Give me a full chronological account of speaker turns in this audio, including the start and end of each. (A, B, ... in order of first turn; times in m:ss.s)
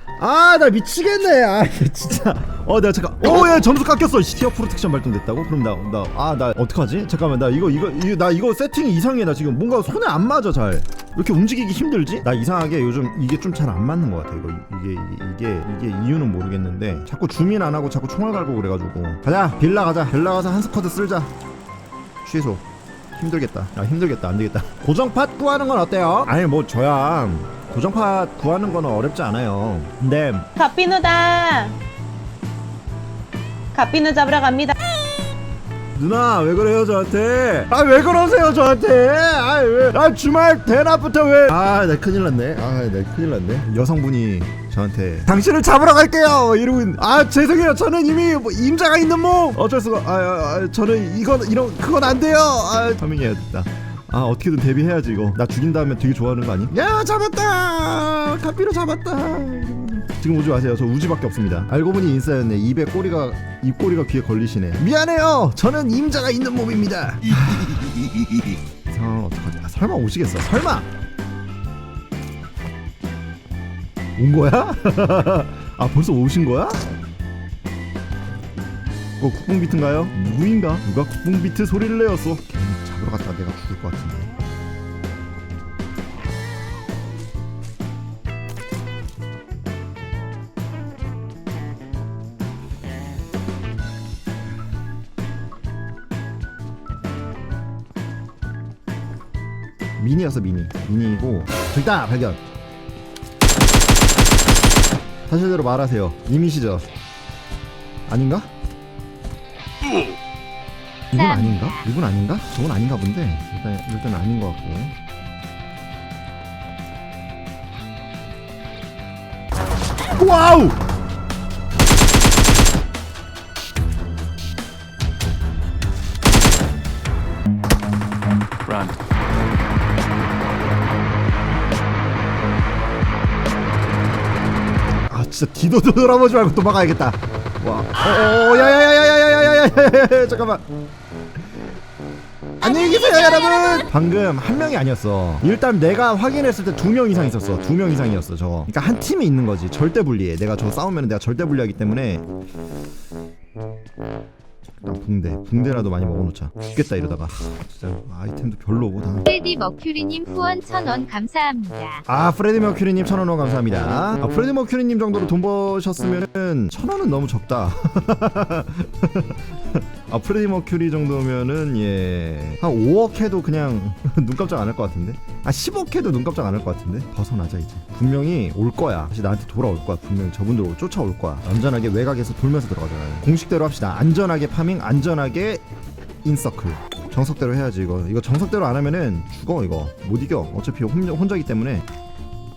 0:00.2-0:21.3 A
0:22.2-0:30.5 A
0:30.6-0:31.8 B
0:33.7-0:34.8 B
0:36.0-1:10.9 A
1:14.2-1:16.8 A
1:19.2-1:24.3 A
1:40.0-1:42.4 A
1:45.3-1:46.9 A
1:48.1-1:48.5 A
1:51.1-1:55.0 A
1:51.2-1:51.7 C
2:00.2-2:00.8 A
2:15.1-2:20.6 A
2:22.6-2:32.3 A
2:22.7-2:23.7 C
2:34.8-2:39.2 A
2:39.3-2:42.0 C
2:42.1-3:05.6 A
3:06.2-3:11.9 A